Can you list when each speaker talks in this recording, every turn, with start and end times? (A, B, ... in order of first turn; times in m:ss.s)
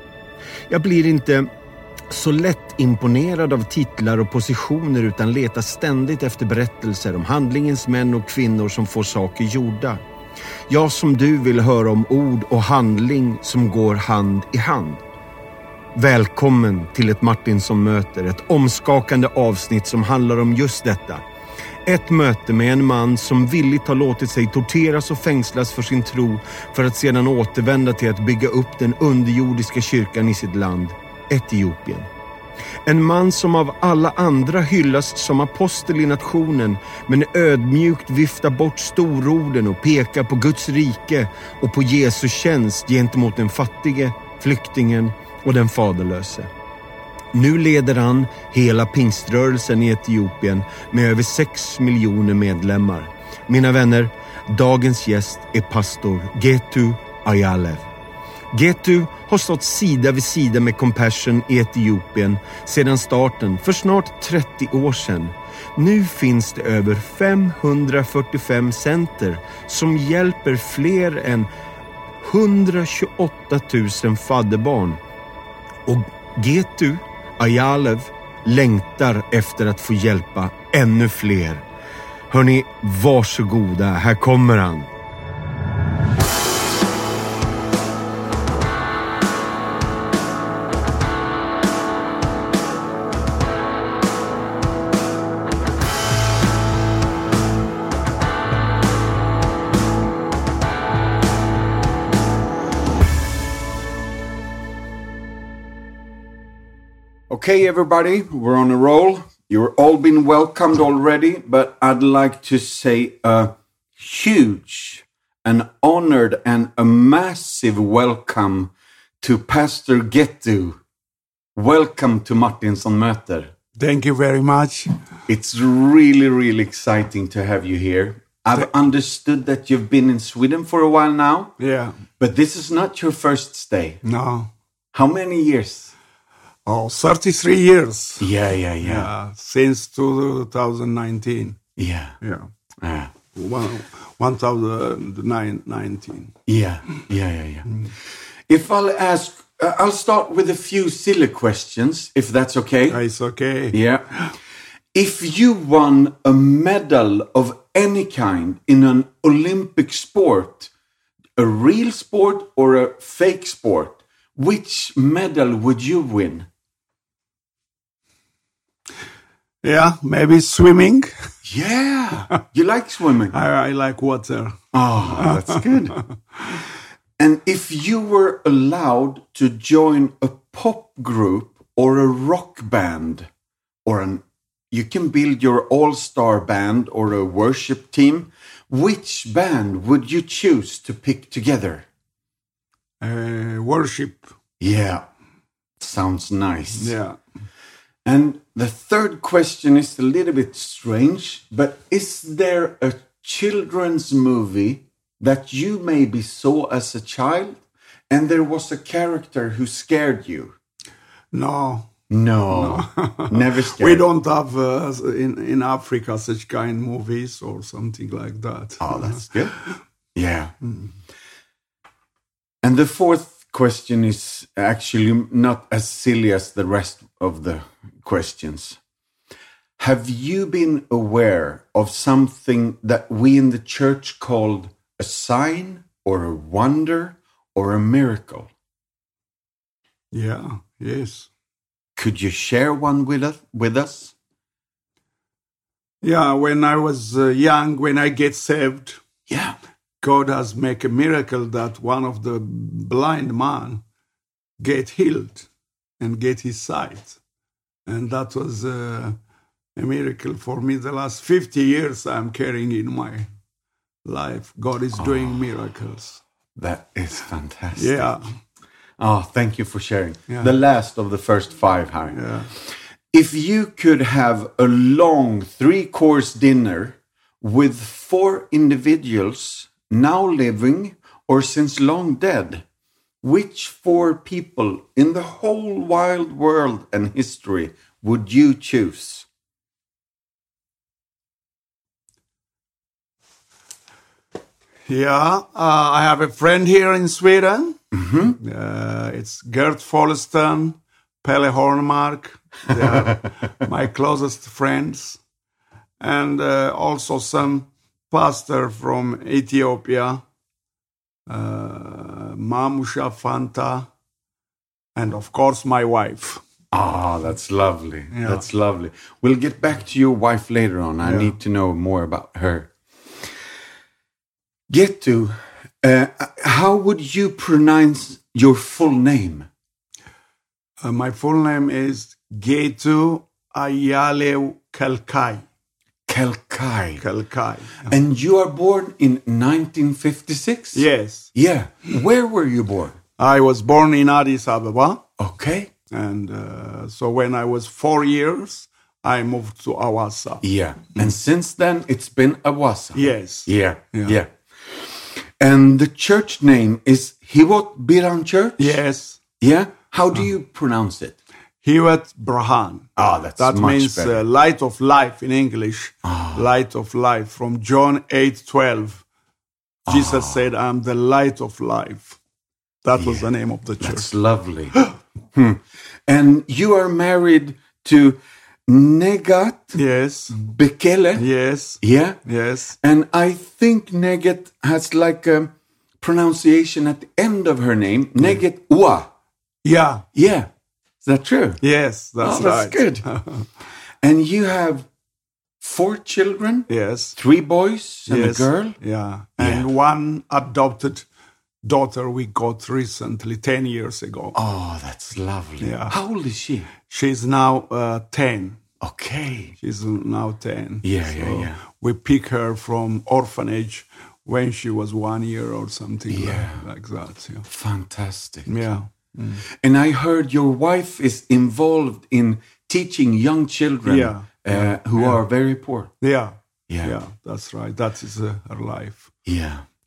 0:00.7-0:01.5 A
0:02.1-0:10.0 A
0:10.7-0:15.0 A
0:15.9-0:21.2 A
0:21.8-0:32.1 A
0:32.8-0:46.5 A
0:47.3-0:57.9 A
0:58.5-1:11.5 A
1:12.2-1:15.0 A
1:15.8-1:21.6 A
1:22.3-1:24.9 A
1:47.3-2:00.8 B
2:01.6-2:03.5 B
2:03.8-2:04.9 C
2:05.3-2:11.6 B
2:11.6-2:12.0 C
2:12.2-2:14.0 B
2:14.0-2:14.5 C
2:14.9-2:15.9 B
2:16.6-2:18.3 C
2:18.2-2:19.1 B
2:18.8-2:21.6 C
2:21.8-2:22.2 B
2:22.2-2:22.5 C
2:22.8-2:23.1 B
2:23.3-2:26.3 C
2:26.5-2:27.8 B
2:28.5-2:33.0 B
2:32.9-2:34.3 C
2:33.7-2:34.2 B
2:34.9-2:40.7 B
2:41.4-2:46.5 B
2:49.6-2:51.1 C
2:51.4-2:53.4 B
2:53.3-2:54.6 C
2:54.7-2:56.0 B
2:55.2-2:56.2 C
2:57.2-3:03.3 B
3:03.8-3:11.8 B
3:13.0-3:14.3 C
3:14.6-3:15.0 B
3:15.8-3:17.0 B
3:16.7-3:17.2 C
3:18.0-3:30.5 B
3:31.3-3:31.9 C
3:32.1-3:34.0 B
3:32.5-3:39.8 C
3:38.8-3:39.6 B
3:40.1-3:40.5 B
3:42.6-3:48.8 B
3:49.8-3:58.5 B
4:00.1-4:01.3 C
4:02.0-4:04.1 B
4:06.0-4:09.0 C
4:09.3-4:09.6 B
4:10.0-4:13.8 C
4:14.6-4:15.5 C
4:16.0-4:17.2 C
4:17.8-4:19.2 C
4:19.8-4:23.3 C
4:24.0-4:26.2 C
4:25.0-4:25.4 B
4:26.6-4:28.1 B
4:27.7-4:28.4 C
4:29.0-4:32.2 B
4:32.1-4:32.5 C
4:33.1-4:42.6 B
4:43.2-4:49.2 B
4:54.9-4:57.8 C
4:57.9-4:58.4 B
4:58.4-5:05.2 C
5:06.0-5:10.2 C
5:11.3-5:13.9 C
5:15.0-5:16.4 C
5:16.7-5:22.7 B
5:18.1-5:18.4 C
5:21.0-5:21.4 C
5:24.7-5:29.5 B
5:30.8-5:35.4 C
5:36.1-5:37.0 B
5:37.0-5:37.9 C
5:37.9-5:43.0 B
5:40.7-5:41.3 C
5:43.2-5:45.0 C
5:45.2-5:45.7 B
5:45.9-5:50.4 C
5:50.4-5:58.8 B
5:52.9-5:54.1 C
5:58.6-5:59.2 C
5:59.4-6:01.2 B
6:01.6-6:09.0 C
6:03.0-6:04.2 B
6:06.0-6:06.5 B
6:09.9-6:10.4 B
6:09.9-6:12.2 C
6:12.8-6:14.1 C
6:12.9-6:13.3 B
6:13.8-6:14.8 B
6:15.3-6:19.8 B
6:19.7-6:20.4 C
6:20.3-6:21.3 B
6:21.2-6:22.8 C
6:21.8-6:22.2 B
6:22.8-6:29.1 B
6:29.6-6:30.0 C
6:30.1-6:30.5 B
6:31.0-6:31.6 B
6:31.6-6:33.5 C
6:32.2-6:33.1 B
6:34.0-6:34.9 B
6:35.6-6:38.8 B
6:36.7-6:37.2 C
6:38.1-6:41.0 C
6:39.4-6:39.6 B
6:41.6-6:44.3 C
6:44.3-6:46.7 B
6:45.6-6:46.0 C
6:46.9-6:48.6 C
6:48.8-6:49.5 B
6:49.6-6:57.5 C
6:50.8-6:51.6 B
6:56.1-6:56.6 B
6:57.5-6:58.6 B
6:58.5-6:59.4 C
6:59.6-7:05.9 B
7:03.8-7:05.2 C
7:06.0-7:09.1 C
7:06.7-7:06.9 B
7:09.2-7:09.6 B